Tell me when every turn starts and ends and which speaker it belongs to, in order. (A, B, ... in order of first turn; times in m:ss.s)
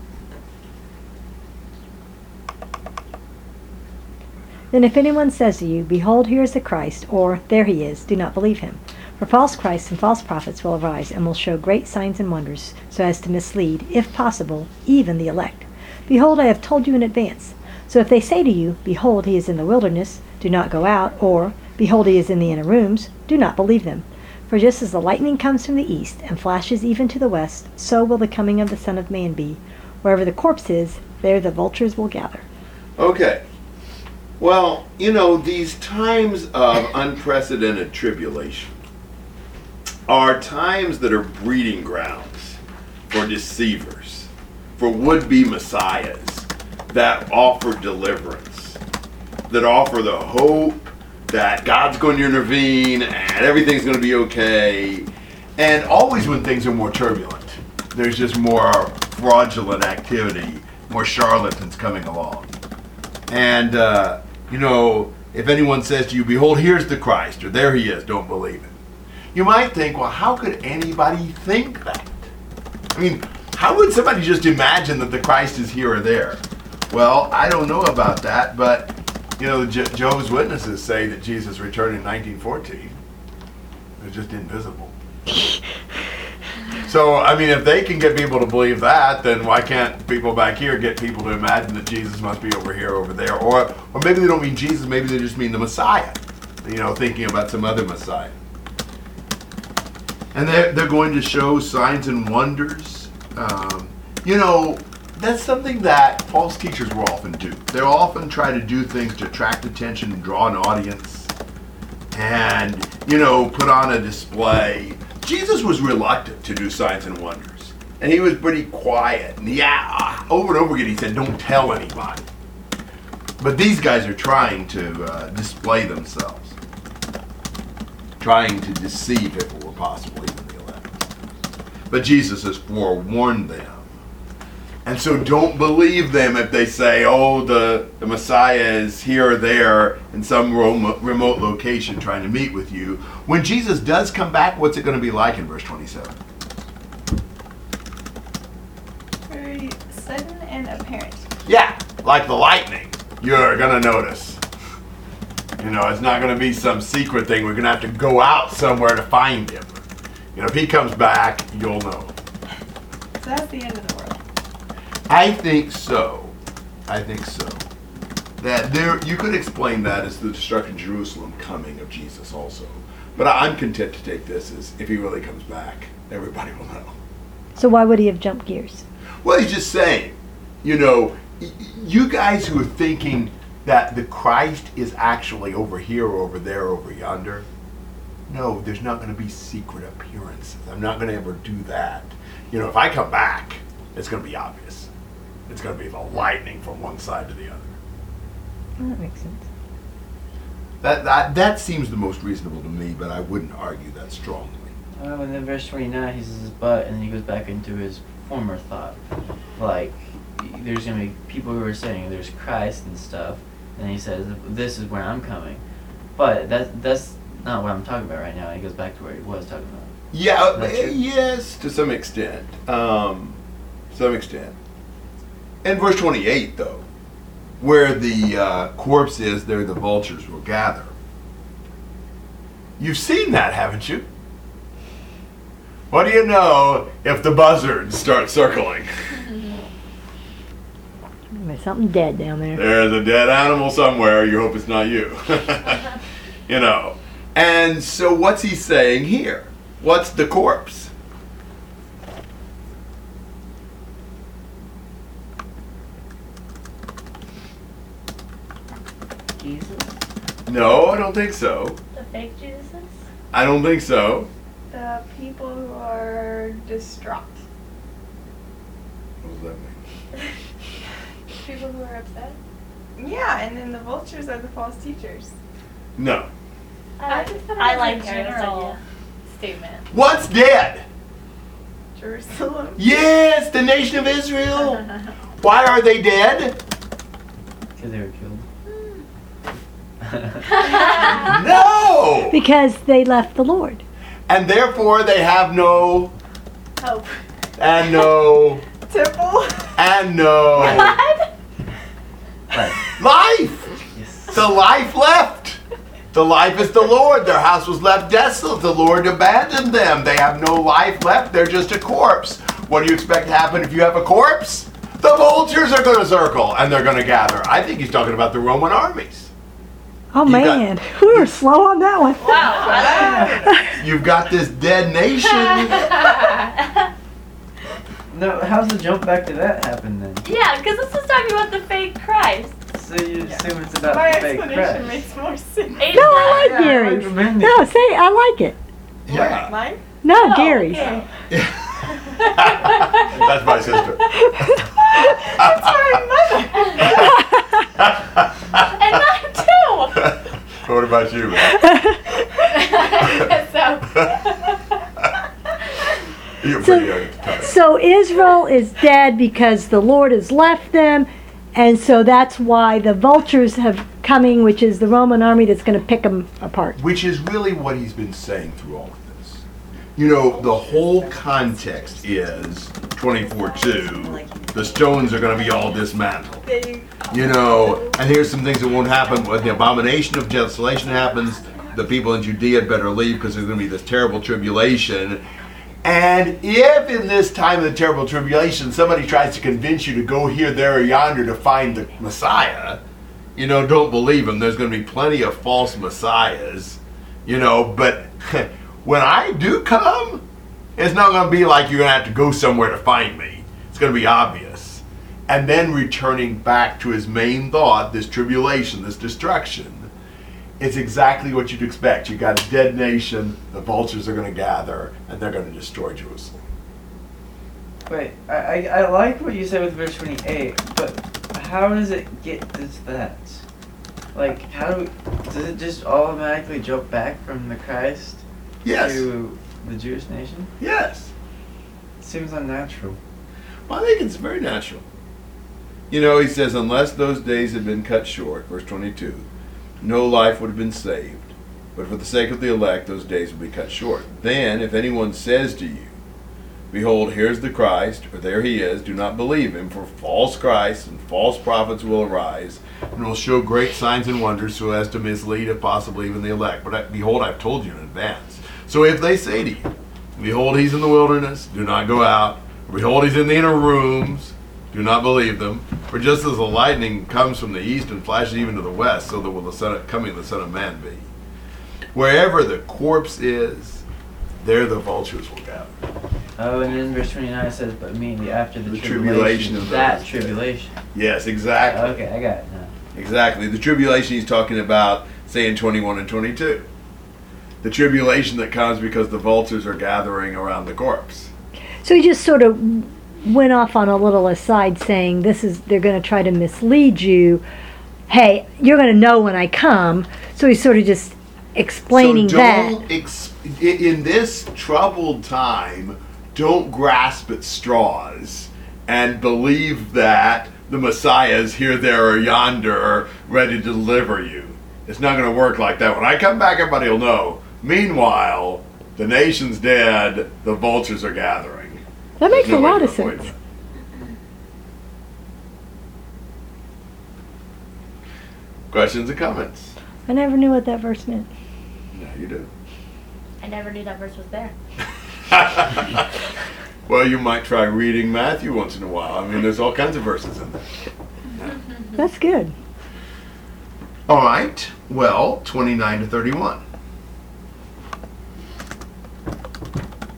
0:04.7-0:32.4 A
0:33.0-0:33.4 B
0:34.4-0:38.8 B
0:40.1-0:42.6 B
0:43.1-0:48.8 B
0:49.5-1:02.5 B
1:03.3-1:08.7 B
1:09.3-1:12.3 B
1:12.9-1:22.9 B
1:24.0-1:24.9 B
1:26.7-1:38.3 B
1:40.3-1:51.3 B
1:52.1-2:02.3 B
2:03.4-2:06.6 B
2:08.2-2:11.0 B
2:11.9-2:13.9 B
2:14.8-2:26.1 B
2:29.3-2:31.3 C
2:31.4-2:34.4 B
2:35.6-2:39.8 B
2:40.3-2:42.1 B
2:43.2-2:44.2 C
2:45.1-2:46.3 B
2:46.9-2:47.6 B
2:48.4-2:56.9 B
2:57.5-2:58.8 A
2:59.2-3:07.4 B
3:08.3-3:14.9 B
3:15.5-3:17.8 B
3:18.8-3:19.4 A
3:20.8-3:24.7 B
3:25.0-3:29.0 D
3:29.6-3:35.6 D
3:36.1-3:40.0 D
3:40.1-3:43.4 B
3:40.5-3:41.0 D
3:43.9-3:44.5 B
3:45.6-3:46.8 B
3:47.6-3:50.9 B
3:52.8-3:54.1 B
3:55.9-3:59.3 B
4:01.3-4:02.7 A
4:02.5-4:06.0 B
4:06.5-4:10.9 B
4:19.4-4:19.9 D
4:20.4-4:21.8 B
4:21.9-4:22.9 E
4:23.3-4:24.3 B
4:24.7-4:27.4 C
4:29.2-4:29.8 B
4:31.4-4:32.4 E
4:33.0-4:35.3 C
4:36.0-4:36.3 B
4:37.0-4:38.8 E
4:37.1-4:38.8 C
4:39.3-4:39.8 E
4:39.9-4:40.8 B
4:41.9-4:42.8 C
4:42.8-4:46.6 B
4:47.8-4:48.4 D
4:48.7-4:49.0 E
4:50.0-4:50.4 D
4:50.5-4:51.1 E
4:51.0-4:52.4 B
4:52.3-4:53.8 A
4:54.3-4:56.1 B
4:56.8-4:57.2 C
4:57.6-4:58.6 B
4:58.8-4:59.8 C
4:59.8-5:01.0 B
5:00.6-5:00.9 D
5:00.6-5:01.2 C
5:02.5-5:02.9 D
5:02.9-5:05.6 B
5:04.0-5:04.4 D
5:06.1-5:19.3 B
5:20.1-5:22.7 A
5:20.2-5:21.4 B
5:22.2-5:23.5 E
5:22.2-5:23.6 C
5:22.8-5:23.3 D
5:23.4-5:23.8 A
5:23.8-5:26.0 B
5:25.7-5:26.6 E
5:28.1-5:30.2 D
5:30.2-5:32.5 E
5:32.7-5:35.0 D
5:33.2-5:36.0 C
5:35.8-5:36.7 E
5:35.9-5:38.6 A
5:36.0-5:37.6 D
5:39.0-5:39.5 B
5:39.0-5:39.8 C
5:40.0-5:40.9 A
5:40.1-5:41.1 E
5:40.5-5:41.1 C
5:41.3-5:44.6 B
5:44.1-5:44.6 A
5:44.9-5:47.1 C
5:45.4-5:45.7 B
5:46.8-5:47.1 B
5:47.0-5:47.4 A
5:47.7-5:48.7 B
5:48.5-5:50.4 E
5:49.9-5:51.7 B
5:51.6-5:52.0 A
5:52.4-5:54.5 E
5:56.4-5:57.6 B
5:56.6-6:06.8 A
6:06.8-6:09.4 B
6:10.0-6:16.4 B
6:10.1-6:15.7 C
6:16.4-6:17.8 C
6:17.1-6:25.2 B
6:21.4-6:21.7 C
6:25.8-6:32.8 B
6:33.4-6:40.2 B
6:40.8-6:49.9 B
6:50.6-6:56.4 B
6:57.9-7:03.4 D
7:04.1-7:10.5 D
7:08.6-7:09.0 B
7:10.6-7:11.1 B
7:12.0-7:13.0 D
7:13.7-7:14.8 B
7:15.9-7:19.2 B
7:19.8-7:25.9 B
7:26.7-7:51.1 B
7:51.9-7:53.8 B
7:54.4-7:55.8 B
7:56.4-8:00.7 D
7:58.7-8:00.4 B
8:00.9-8:02.0 B
8:01.6-8:02.7 D
8:02.9-8:06.7 B
8:07.6-8:11.3 B
8:11.8-8:17.4 A
8:18.1-8:22.8 A
8:21.9-8:43.3 B
8:42.2-8:43.2 A
8:48.7-8:49.7 B
8:50.1-8:51.3 A
8:51.9-8:52.5 B
8:53.4-8:54.5 E
8:55.3-8:56.1 B
8:56.9-9:00.8 B
9:02.0-9:02.5 A
9:04.1-9:06.6 B